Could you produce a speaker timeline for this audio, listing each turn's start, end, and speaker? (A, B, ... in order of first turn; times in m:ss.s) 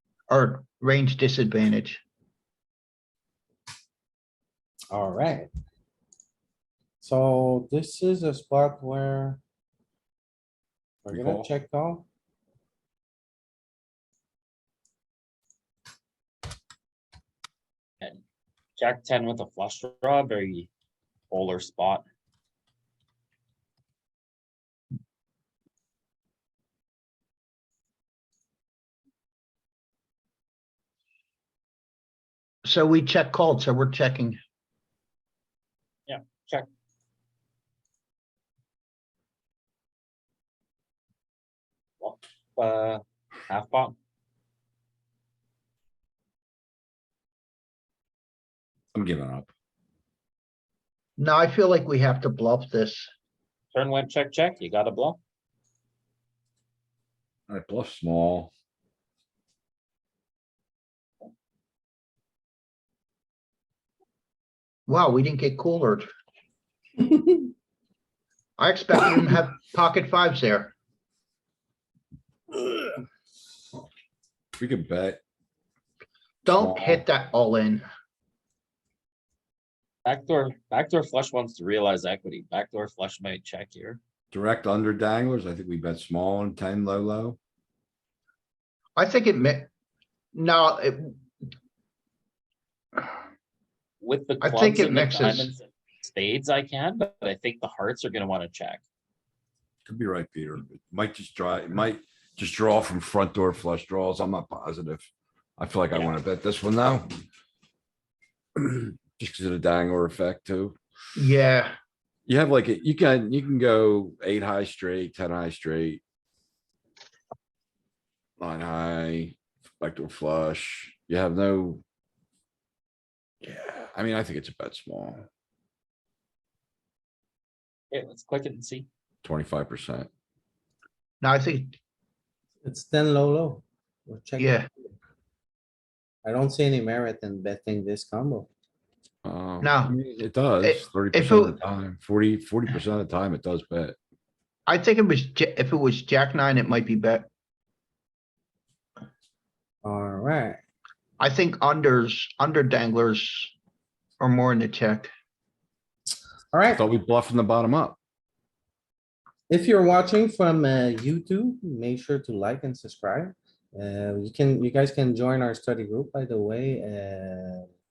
0:00.3-0:02.0 A
0:04.9-0:05.5 B
0:07.0-0:09.4 B
0:11.0-0:12.0 B
0:11.1-0:11.5 C
0:18.8-0:20.7 D
0:21.3-0:22.0 D
0:32.6-0:34.4 A
0:36.1-0:36.7 D
0:42.0-0:44.0 D
0:48.9-0:49.5 C
0:51.2-0:53.1 A
0:53.7-0:55.2 D
0:57.5-0:58.5 C
1:04.9-1:06.1 A
1:08.6-1:10.7 A
1:14.5-1:15.2 C
1:16.4-1:17.8 A
1:16.5-1:17.0 C
1:20.0-1:24.0 D
1:24.3-1:27.4 C
1:29.0-1:29.7 A
1:30.3-1:31.2 A
1:34.0-1:38.8 D
1:34.4-1:35.5 A
1:39.8-1:45.1 C
1:45.6-1:47.1 C
1:48.6-1:50.8 C
1:51.2-1:51.8 A
1:52.3-1:56.0 C
1:58.4-2:01.8 C
2:03.4-2:05.2 C
2:07.9-2:08.9 D
2:09.2-2:10.1 C
2:11.2-2:11.7 A
2:12.6-2:14.7 B
2:14.4-2:14.7 A
2:16.2-2:18.5 B
2:19.2-2:24.0 C
2:19.6-2:20.0 A
2:20.6-2:21.6 A
2:24.7-2:27.3 A
2:29.8-2:30.6 B
2:31.2-2:33.5 A
2:34.2-2:35.1 A
2:36.5-2:36.8 B
2:36.7-2:38.0 C
2:39.5-2:47.7 B